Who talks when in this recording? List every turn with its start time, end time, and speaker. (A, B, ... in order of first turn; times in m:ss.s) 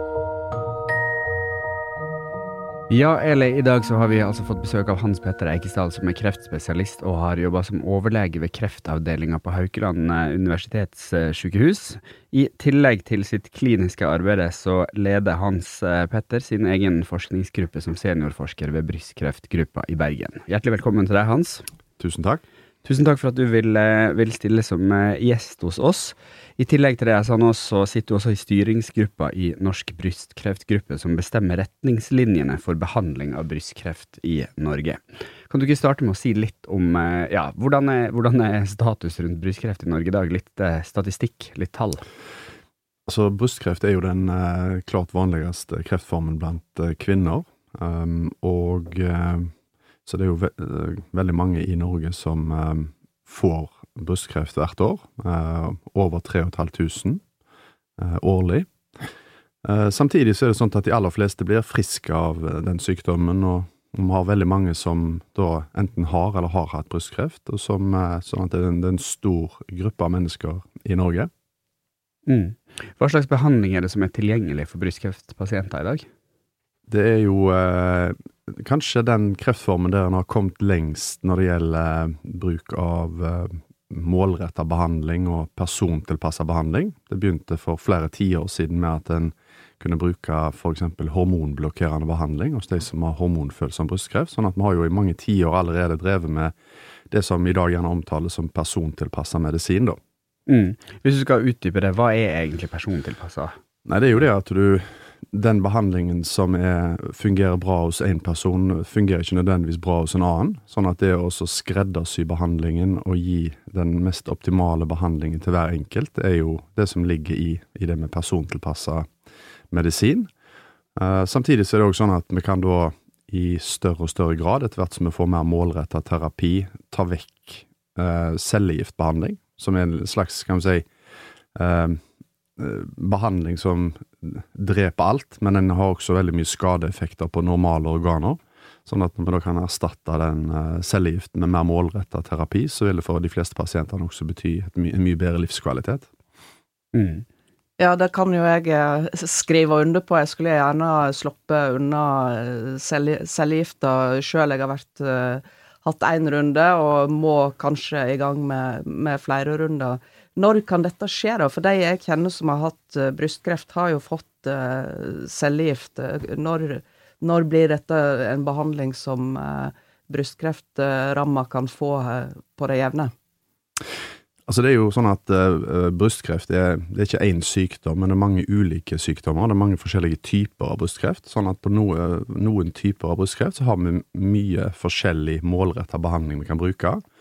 0:02.9-0:21.6 A
0:22.0-0:22.4 B
0:22.8-0:42.0 A
0:43.1-0:49.5 B
0:50.1-0:57.2 B
0:58.0-0:59.0 B
0:59.6-1:11.3 B
1:12.3-1:16.1 A
1:16.9-1:36.6 B
1:37.1-1:40.0 B
1:40.5-1:43.5 A
1:43.9-1:59.1 B
1:59.7-2:00.3 B
2:01.0-2:10.9 B
2:11.6-2:12.0 B
2:12.6-2:26.1 B
2:26.9-2:27.2 A
2:27.8-2:53.1 C
2:54.5-3:07.0 B